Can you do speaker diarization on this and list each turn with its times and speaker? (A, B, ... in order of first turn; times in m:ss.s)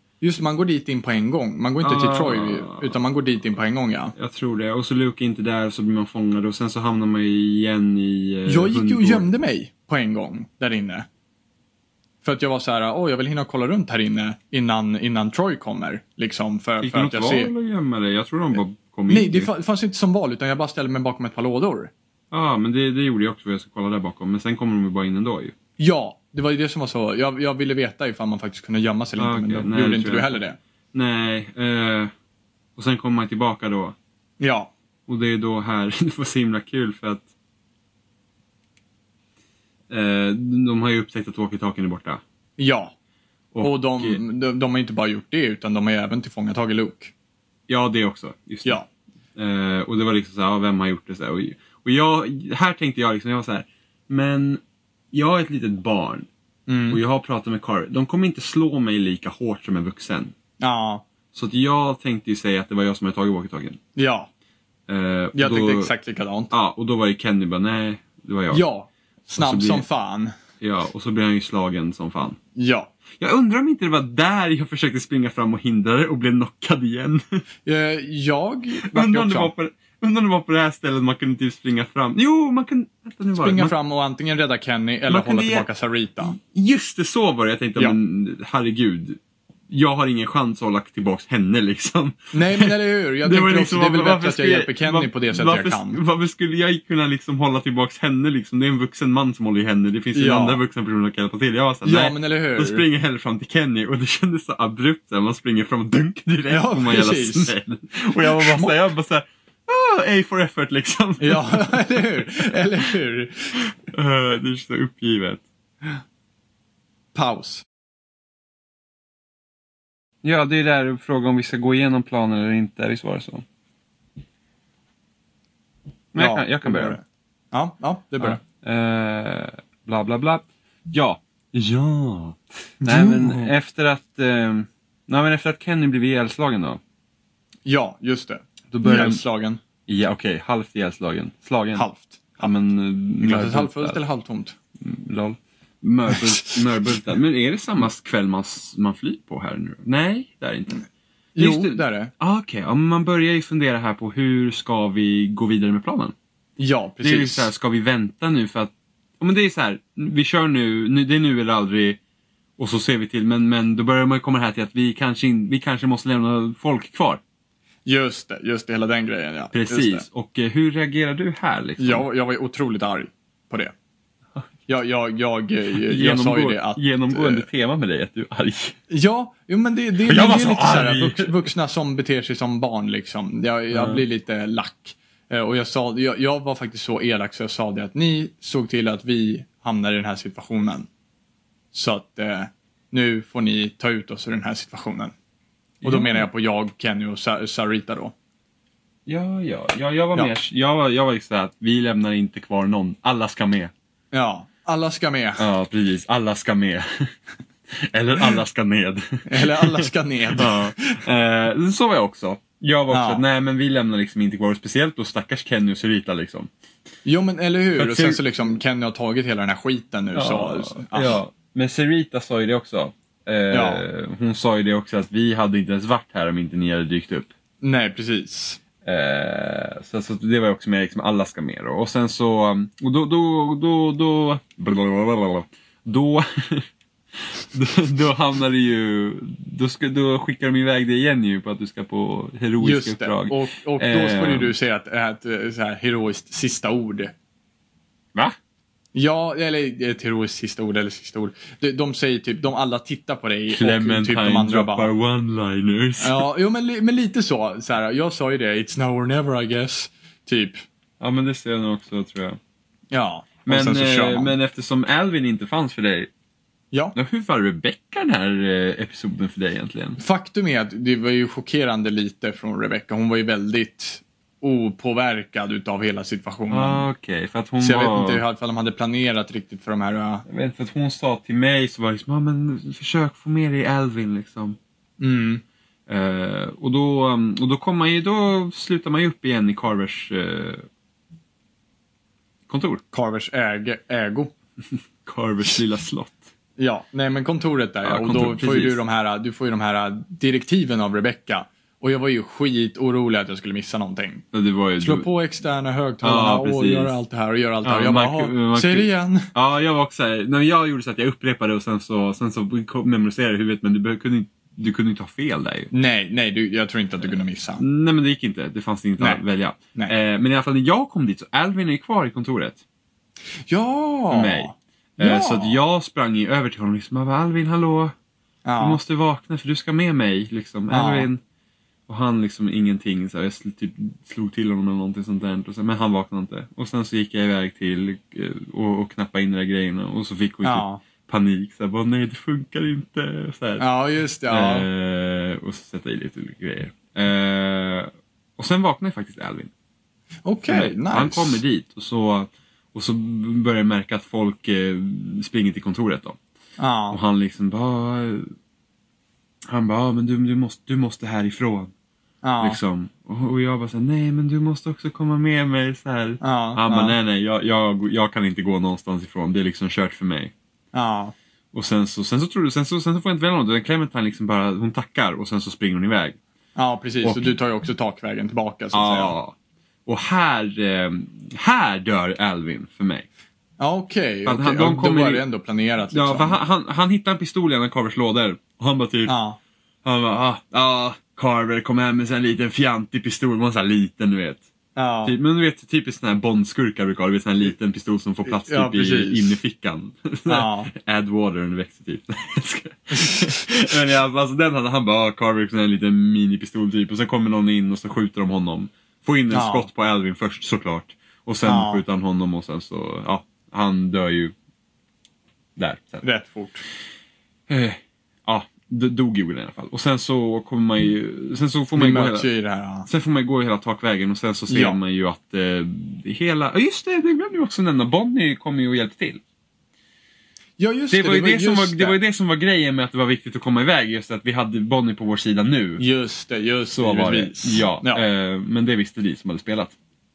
0:00.2-0:04.1 A
0:01.8-0:03.0 B
0:04.2-0:09.3 B
0:08.4-0:11.0 A
0:12.2-0:17.5 A
0:16.8-0:19.5 B
0:19.1-0:21.9 A
0:22.3-0:25.5 B
0:25.8-0:30.6 A
0:29.2-0:30.4 B
0:30.9-0:32.1 B
0:32.8-0:34.0 B
0:34.4-0:34.7 A
0:35.1-0:37.2 B
0:39.9-0:42.2 B
0:42.6-0:42.9 A
0:43.5-0:44.2 B
0:43.6-0:47.1 A
0:47.7-0:48.8 B
0:49.4-0:54.6 B
0:55.1-0:56.3 B
0:56.7-0:57.0 A
0:56.9-1:00.3 B
1:00.6-1:01.0 A
1:01.3-1:03.8 B
1:04.0-1:04.3 A
1:04.9-1:05.9 B
1:05.3-1:06.5 A
1:06.5-1:08.6 B
1:08.5-1:10.3 A
1:09.4-1:09.8 B
1:10.6-1:12.4 B
1:12.5-1:12.9 A
1:13.2-1:17.4 B
1:17.6-1:19.5 A
1:18.8-1:23.7 B
1:23.4-1:26.3 A
1:25.1-1:25.7 B
1:26.2-1:32.7 B
1:32.3-1:36.0 A
1:33.2-1:52.0 B
1:40.1-1:40.6 A
1:41.8-1:42.8 A
1:46.5-1:47.5 A
1:48.2-1:48.8 A
1:51.2-1:53.6 A
1:53.9-1:55.4 B
1:57.1-1:57.6 A
2:00.2-2:03.4 B
2:06.1-2:07.0 B
2:06.2-2:08.4 A
2:08.2-2:16.8 B
2:12.8-2:13.5 A
2:17.6-2:19.6 A
2:18.7-2:19.2 B
2:19.9-2:21.8 B
2:21.7-2:22.5 A
2:22.4-2:24.0 B
2:23.2-2:24.5 A
2:24.8-2:30.8 B
2:31.4-2:32.1 A
2:31.4-2:36.1 B
2:36.6-2:37.5 A
2:37.0-2:42.0 B
2:42.6-2:47.2 B
2:47.8-2:50.0 A
2:49.5-2:52.0 B
2:51.8-2:53.7 A
2:54.7-2:57.4 A
2:55.8-2:58.8 B
2:58.9-3:10.9 A
3:00.0-3:01.4 B
3:03.7-3:04.0 B
3:11.7-3:15.1 A
3:15.8-3:16.3 B
3:15.8-3:18.1 A
3:19.0-3:23.7 B
3:24.1-3:25.4 A
3:25.4-3:27.1 B
3:27.7-3:36.5 B
3:29.3-3:31.0 A
3:32.9-3:33.2 A
3:37.0-3:41.2 A
3:37.8-3:38.2 B
3:40.1-3:47.3 B
3:43.5-3:43.8 A
3:47.6-3:48.6 A
3:48.8-3:56.6 B
3:57.2-4:04.5 B
4:02.6-4:07.1 A
4:08.9-4:14.9 A
4:13.5-4:16.2 B
4:16.0-4:20.6 A
4:21.0-4:22.4 B
4:22.9-4:24.3 A
4:23.4-4:26.1 B
4:26.9-4:30.0 B
4:30.0-4:36.9 A
4:36.5-4:38.2 B
4:37.6-4:40.2 A
4:40.3-4:44.6 B
4:45.0-4:45.4 A
4:45.9-4:50.6 B
4:52.5-4:52.8 B
4:52.9-4:54.3 A
4:55.0-4:56.3 B
4:56.6-5:04.2 A
4:57.8-4:58.8 B
5:04.3-5:05.0 B
5:04.8-5:09.3 A
5:06.0-5:06.9 B
5:07.6-5:15.7 B
5:15.7-5:17.6 A
5:17.6-5:22.6 B
5:23.5-5:25.6 A
5:24.1-5:27.9 B
5:28.4-5:28.8 A
5:28.6-5:31.2 B
5:30.7-5:31.1 A
5:31.9-5:43.6 B
5:40.4-5:40.8 A
5:43.6-5:44.7 A
5:44.3-5:49.5 B
5:50.2-5:51.4 A
5:50.5-5:56.2 B
5:56.6-5:57.0 A
5:56.9-5:58.3 B
5:59.5-6:01.7 B
6:02.2-6:02.6 A
6:02.4-6:10.3 B
6:06.2-6:07.0 A
6:10.7-6:11.1 A
6:11.5-6:16.2 B
6:16.6-6:19.1 A
6:17.0-6:17.3 B
6:18.7-6:19.3 B
6:19.8-6:23.0 B
6:23.6-6:26.4 A
6:24.2-6:25.2 B
6:25.9-6:29.1 B
6:29.1-6:29.4 A
6:29.8-6:34.4 B
6:34.8-6:35.1 A
6:35.0-6:54.3 B
6:38.3-6:39.4 A
6:40.3-6:40.7 A
6:43.0-6:43.3 A
6:49.3-6:49.7 A
6:51.4-6:51.8 A
6:55.6-6:56.0 B
6:56.0-6:56.6 A
6:57.5-7:02.3 B
7:01.7-7:02.9 A
7:02.9-7:09.2 B
7:04.5-7:04.8 A
7:10.6-7:12.0 A
7:10.9-7:15.8 B
7:15.8-7:18.0 A
7:16.7-7:19.7 B